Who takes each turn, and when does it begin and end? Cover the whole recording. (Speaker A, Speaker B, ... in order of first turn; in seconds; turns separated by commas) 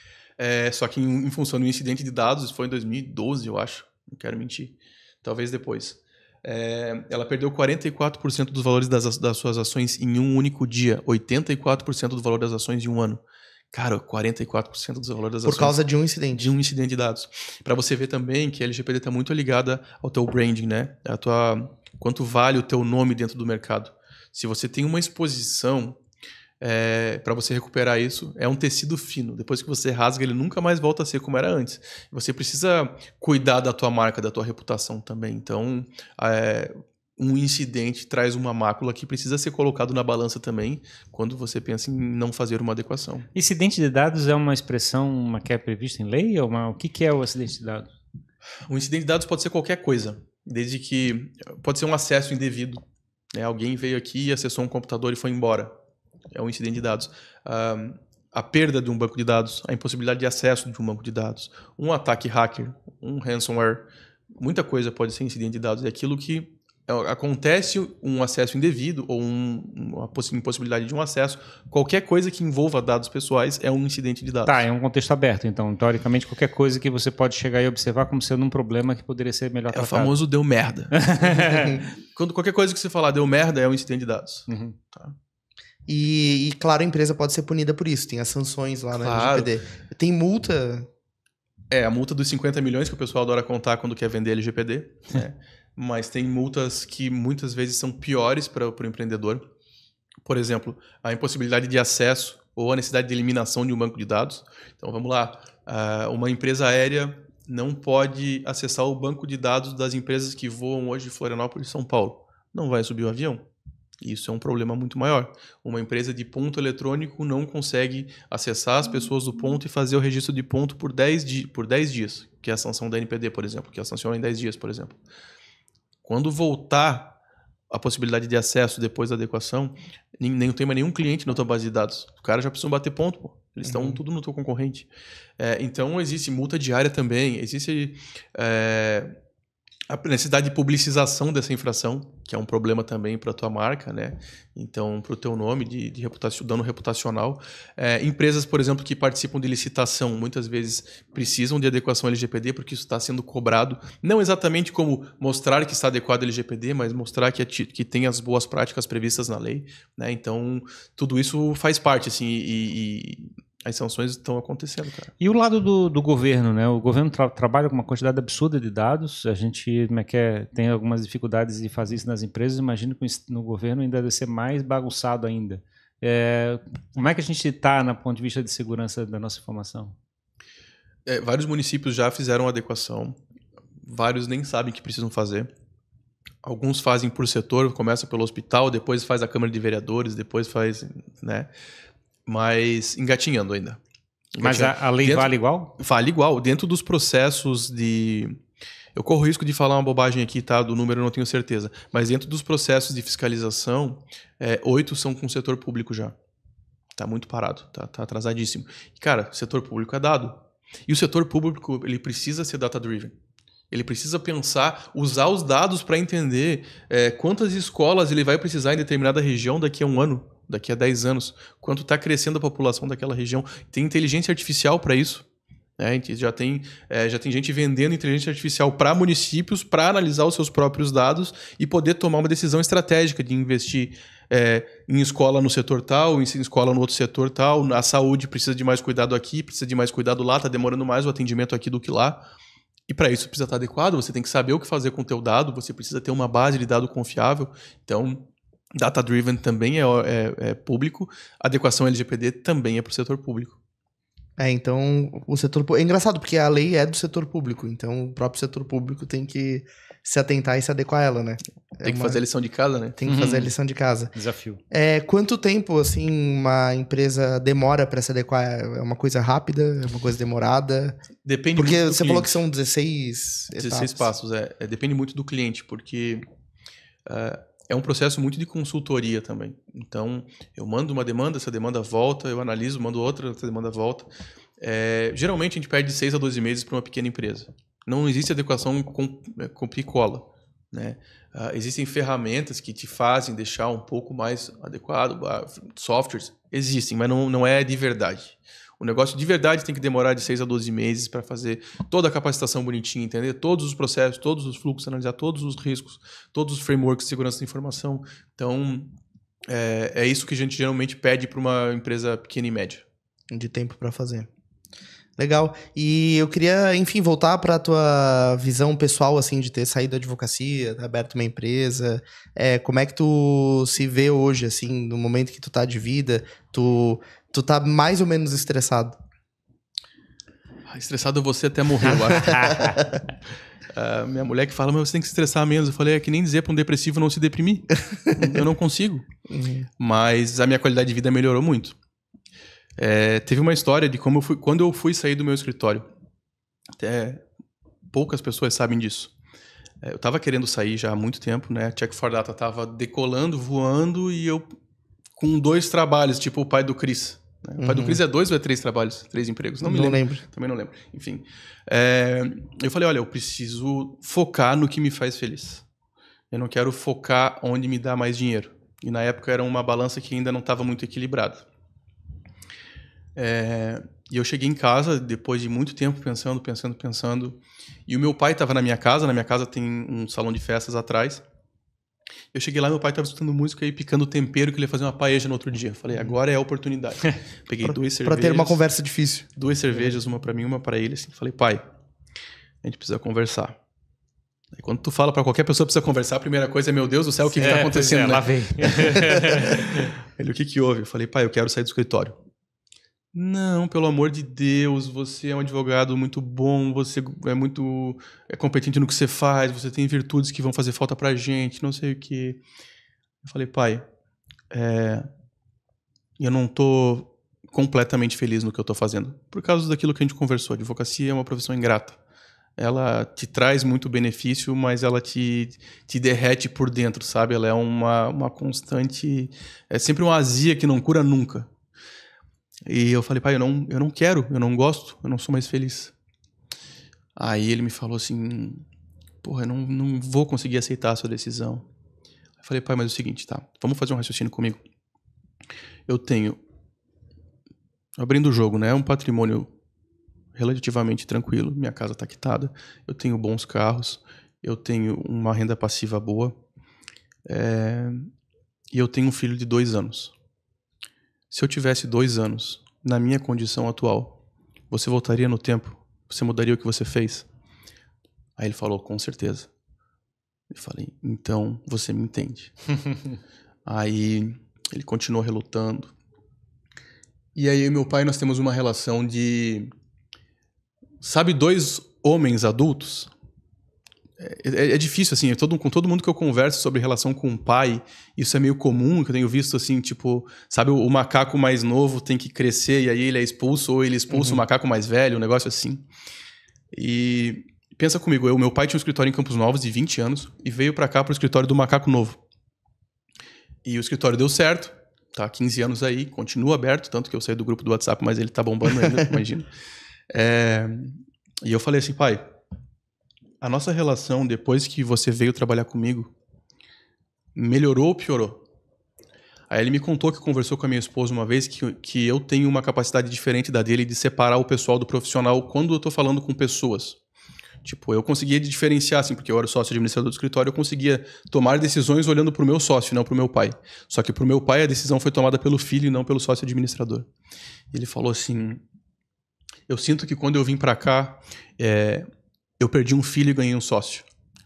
Speaker A: 0.4-15.8, Speaker B: 15.4-16.5, Speaker A: 16.3-26.0, Speaker A: 26.6-43.3, Speaker C: 43.4-47.9, Speaker A: 48.7-52.8, Speaker A: 53.3-55.7, Speaker A: 56.3-63.9, Speaker A: 64.4-74.6, Speaker C: 74.5-80.1, Speaker A: 79.7-81.5, Speaker C: 80.9-81.8, Speaker B: 81.4-81.8, Speaker A: 82.1-85.2, Speaker C: 84.5-84.8, Speaker B: 85.9-90.9, Speaker A: 89.0-89.6, Speaker A: 91.7-99.5, Speaker A: 100.2-113.5, Speaker A: 114.0-125.0, Speaker A: 126.0-127.2, Speaker A: 127.7-134.9, Speaker B: 133.7-134.0, Speaker A: 135.4-139.1, Speaker A: 139.9-165.1, Speaker C: 165.2-179.9, Speaker A: 181.1-183.2, Speaker A: 183.9-185.5, Speaker A: 186.4-191.5, Speaker A: 192.3-193.8, Speaker A: 194.3-198.4, Speaker C: 194.4-195.8, Speaker A: 199.0-206.1, Speaker A: 207.0-213.1, Speaker A: 213.7-225.2, Speaker A: 225.8-242.3, Speaker A: 242.9-253.6, Speaker B: 254.4-262.2, Speaker A: 261.8-263.0, Speaker B: 263.0-264.1, Speaker C: 263.1-263.5, Speaker C: 264.2-264.6, Speaker B: 264.7-271.0, Speaker A: 271.2-272.4, Speaker B: 271.6-274.1, Speaker A: 273.6-276.2, Speaker A: 277.1-308.9, Speaker A: 309.5-312.8, Speaker B: 313.3-314.3, Speaker B: 315.2-329.0, Speaker A: 330.7-332.8, Speaker B: 332.3-332.9, Speaker A: 333.7-339.1, Speaker B: 339.3-339.7, Speaker A: 339.8-341.8, Speaker A: 342.8-345.9, Speaker A: 346.8-347.2, Speaker A: 347.9-349.1, Speaker A: 349.8-354.4, Speaker A: 355.2-365.6, Speaker B: 357.6-358.0, Speaker B: 359.6-360.2, Speaker A: 366.3-371.5, Speaker A: 373.2-381.2, Speaker A: 382.3-388.6, Speaker B: 387.6-389.3, Speaker A: 389.4-391.6, Speaker A: 392.6-393.6, Speaker A: 394.6-402.2, Speaker C: 397.3-399.9, Speaker A: 403.1-412.4, Speaker A: 413.2-413.9, Speaker A: 414.5-415.1, Speaker A: 416.2-422.0, Speaker A: 422.6-431.5, Speaker A: 432.7-435.9, Speaker A: 437.2-438.6, Speaker A: 439.2-441.7, Speaker A: 442.4-444.6, Speaker A: 445.9-446.4, Speaker A: 448.0-449.5, Speaker A: 450.4-456.4, Speaker A: 457.3-458.1, Speaker A: 458.7-460.1, Speaker A: 461.3-464.2, Speaker A: 464.7-467.3, Speaker A: 468.4-469.5, Speaker A: 470.5-472.5, Speaker A: 473.7-475.9, Speaker A: 477.4-479.7, Speaker A: 481.0-483.1, Speaker A: 484.2-495.9, Speaker B: 494.1-494.4, Speaker A: 496.7-502.2, Speaker A: 503.6-509.5, Speaker A: 510.1-512.2, Speaker A: 513.4-516.1, Speaker A: 517.4-518.4, Speaker A: 519.5-527.0, Speaker A: 527.6-537.1, Speaker A: 537.7-538.6, Speaker A: 539.7-542.1, Speaker A: 542.6-544.1